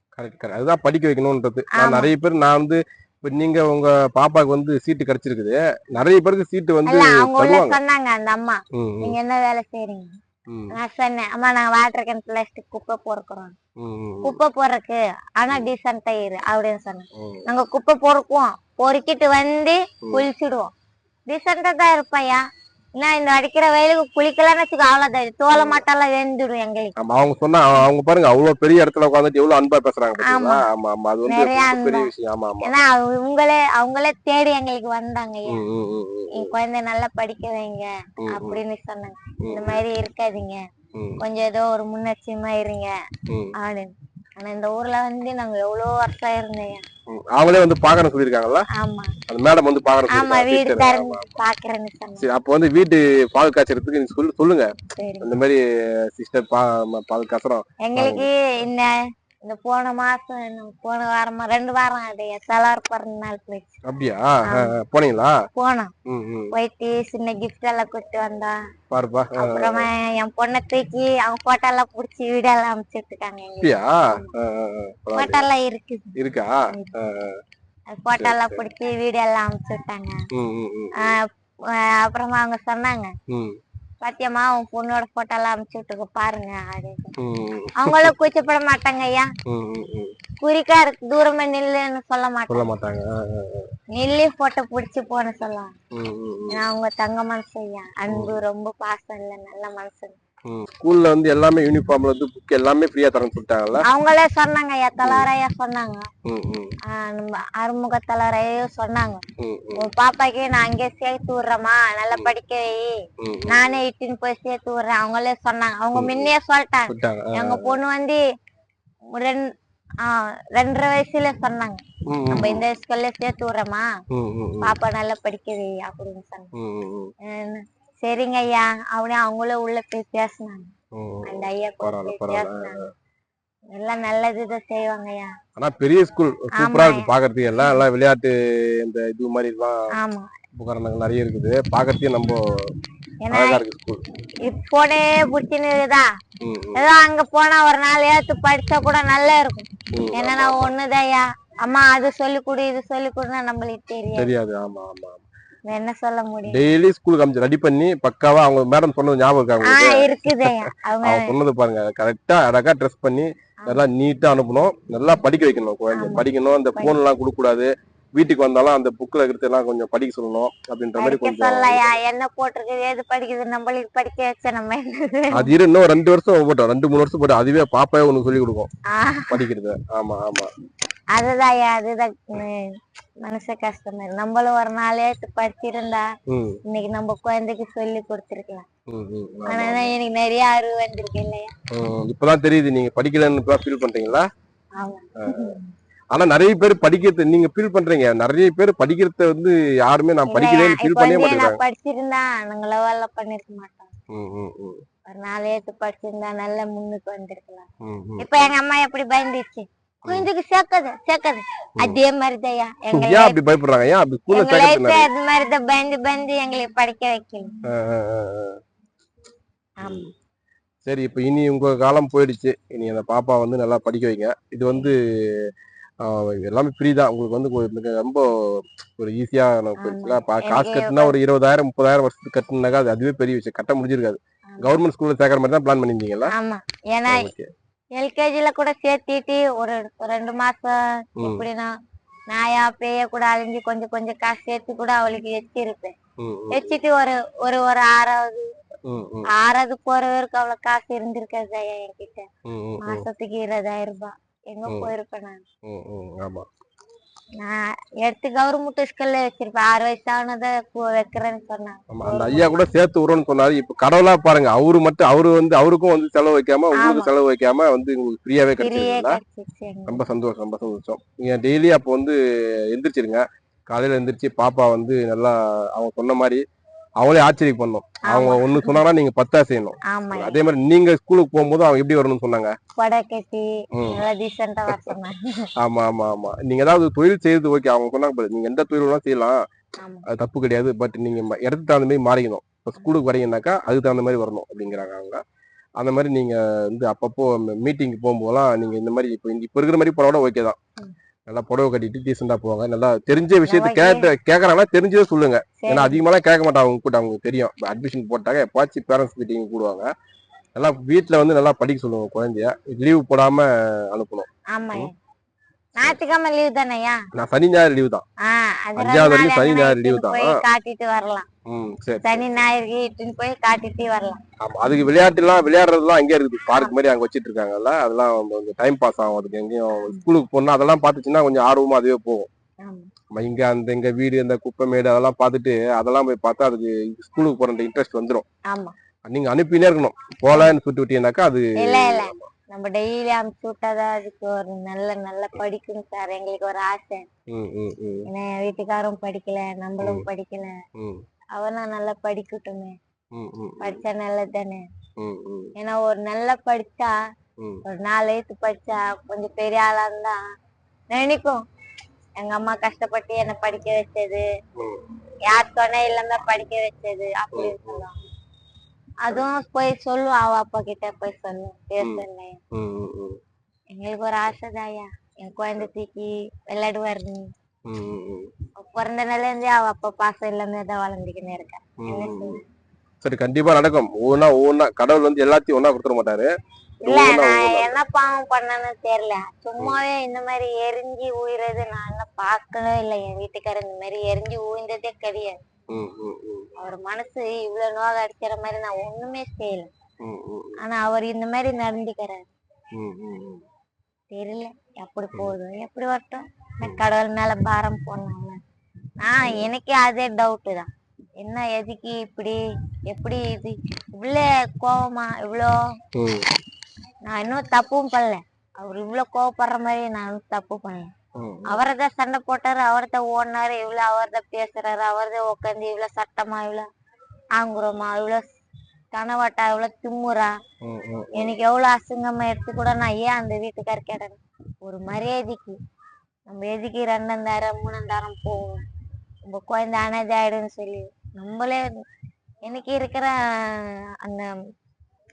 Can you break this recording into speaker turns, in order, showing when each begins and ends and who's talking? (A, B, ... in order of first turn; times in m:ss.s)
0:00.2-0:07.8 A
0:01.8-0:02.1 B
0:06.9-0:10.1 B
0:08.7-0:09.2 A
0:10.5-0:10.8 A
0:10.7-0:13.6 B
0:13.8-0:14.4 A
0:14.2-0:20.7 B
0:17.2-0:17.5 A
0:21.3-0:22.4 B
0:23.0-0:26.9 B
0:25.5-0:25.8 A
0:27.0-0:32.7 A
0:30.2-0:30.6 B
0:31.3-0:32.1 B
0:32.6-0:35.6 B
0:35.5-0:36.6 A
0:36.4-0:40.6 B
0:38.2-0:38.6 A
0:39.4-0:39.8 A
0:41.0-0:41.2 A
0:41.2-0:42.9 B
0:43.3-0:43.5 A
0:43.6-0:46.8 B
0:47.1-0:48.6 A
0:48.7-0:49.1 B
0:49.3-0:51.3 A
0:50.1-0:52.3 B
0:52.2-0:58.3 A
0:55.0-0:55.3 B
0:57.8-0:58.9 B
0:59.5-1:03.8 B
1:03.9-1:05.4 A
1:05.6-1:05.9 B
1:06.1-1:06.5 A
1:06.5-1:08.6 B
1:08.9-1:09.9 A
1:09.4-1:14.3 B
1:13.6-1:15.4 A
1:15.1-1:16.1 B
1:16.2-1:17.4 A
1:18.0-1:20.2 B
1:18.2-1:18.6 A
1:20.3-1:21.2 A
1:21.0-1:23.1 B
1:23.3-1:23.6 A
1:24.0-1:27.1 B
1:27.2-1:28.2 A
1:27.8-1:29.3 B
1:29.5-1:30.1 A
1:30.4-1:32.7 B
1:32.5-1:33.7 A
1:33.9-1:35.7 B
1:35.9-1:36.6 A
1:36.5-1:40.2 B
1:38.1-1:38.4 A
1:40.5-1:43.8 A
1:43.9-1:46.1 B
1:45.0-1:45.3 A
1:46.3-1:46.7 A
1:46.9-1:49.2 B
1:49.4-1:49.9 A
1:49.8-1:52.9 B
1:53.2-1:53.8 A
1:53.5-1:58.2 B
1:55.9-1:56.3 A
1:56.9-1:57.8 A
1:59.2-1:59.4 B
2:00.0-2:03.9 B
2:02.1-2:02.6 A
2:04.1-2:04.8 A
2:04.6-2:06.5 B
2:06.6-2:07.1 A
2:07.2-2:10.7 B
2:11.0-2:12.9 A
2:11.3-2:12.8 B
2:13.8-2:15.3 B
2:15.6-2:19.8 A
2:16.6-2:17.8 B
2:20.0-2:20.3 B
2:20.6-2:22.4 A
2:23.2-2:23.6 B
2:23.3-2:24.0 A
2:24.4-2:26.1 B
2:26.4-2:26.8 A
2:26.8-2:34.3 B
2:29.9-2:30.7 A
2:34.2-2:35.2 A
2:35.7-2:36.6 B
2:36.5-2:51.9 A
2:39.6-2:41.3 B
2:45.9-2:47.0 B
2:51.0-2:55.5 B
2:55.3-2:58.7 A
2:58.9-2:59.4 B
2:59.3-3:00.5 A
3:01.2-3:02.6 B
3:03.2-3:06.1 B
3:06.3-3:06.6 A
3:06.7-3:08.7 B
3:08.9-3:09.9 A
3:09.5-3:11.5 B
3:11.7-3:14.3 A
3:14.8-3:15.7 B
3:15.2-3:15.6 A
3:16.1-3:21.6 A
3:20.3-3:23.9 B
3:24.1-3:24.8 A
3:25.1-3:27.7 B
3:27.8-3:28.5 A
3:28.2-3:33.4 B
3:32.9-3:35.1 A
3:34.3-3:37.5 B
3:37.7-3:38.6 A
3:39.8-3:40.1 B
3:39.8-3:40.1 A
3:40.9-3:56.3 A
3:49.8-3:51.2 B
3:54.5-3:54.8 B
3:56.3-3:57.3 B
3:57.1-3:57.5 A
3:58.0-4:01.7 B
4:01.2-4:01.4 A
4:02.3-4:06.0 B
4:06.2-4:06.8 A
4:06.5-4:08.5 B
4:08.9-4:09.3 A
4:09.3-4:12.3 B
4:12.5-4:13.1 A
4:12.8-4:15.4 B
4:14.7-4:14.9 A
4:15.7-4:16.5 A
4:17.4-4:22.5 B
4:21.9-4:29.2 A
4:26.8-4:27.1 B
4:28.6-4:30.0 B
4:29.9-4:36.4 A
4:37.0-4:42.5 A
4:38.1-4:38.8 B
4:39.9-4:40.4 B
4:42.8-4:45.5 B
4:43.8-4:44.0 A
4:44.7-4:45.0 A
4:45.6-4:49.4 A
4:49.8-4:50.1 B
4:50.1-4:55.2 A
4:55.8-5:00.6 A
5:01.3-5:09.9 A
5:03.5-5:04.1 B
5:05.6-5:06.0 B
5:10.6-5:14.9 A
5:14.5-5:14.9 B
5:15.8-5:17.0 B
5:17.2-5:18.0 A
5:18.2-5:21.3 B
5:18.8-5:20.4 A
5:21.5-5:22.2 A
5:22.0-5:24.2 B
5:24.4-5:32.3 A
5:26.5-5:26.7 B
5:32.6-5:32.9 B
5:33.1-5:38.3 A
5:38.5-5:38.8 B
5:39.1-5:42.3 A
5:41.6-5:47.0 B
5:47.3-5:48.1 A
5:48.1-5:50.5 B
5:49.8-5:50.1 A
5:50.8-5:51.0 A
5:51.4-5:52.8 B
5:53.1-5:53.8 A
5:53.6-5:54.6 B
5:55.0-5:55.5 A
5:55.6-5:56.9 B
5:57.7-6:00.2 B
6:00.9-6:01.4 B
6:02.2-6:04.2 B
6:04.6-6:04.8 A
6:05.3-6:08.0 B
6:07.3-6:07.8 A
6:09.0-6:12.4 B
6:11.8-6:13.2 A
6:13.7-6:17.3 B
6:17.7-6:18.3 A
6:18.6-6:22.4 B
6:21.8-6:22.4 A
6:23.0-6:26.3 A
6:26.8-6:35.4 B
6:26.9-6:27.8 A
6:35.7-6:36.5 A
6:36.6-6:39.7 B
6:40.0-6:40.6 A
6:40.6-6:42.3 B
6:42.8-6:43.4 A
6:44.1-6:48.4 B
6:49.0-6:50.7 B
6:49.2-6:49.5 A
6:51.2-6:52.4 B
6:52.9-6:55.5 B
6:56.0-6:56.3 A
6:57.1-7:00.9 B
7:01.2-7:01.6 A
7:01.5-7:06.7 B
7:07.4-7:08.2 B
7:08.9-7:10.3 B
7:10.6-7:11.4 A
7:11.1-7:15.6 B
7:16.3-7:18.6 B
7:19.3-7:21.6 B
7:22.5-7:24.3 B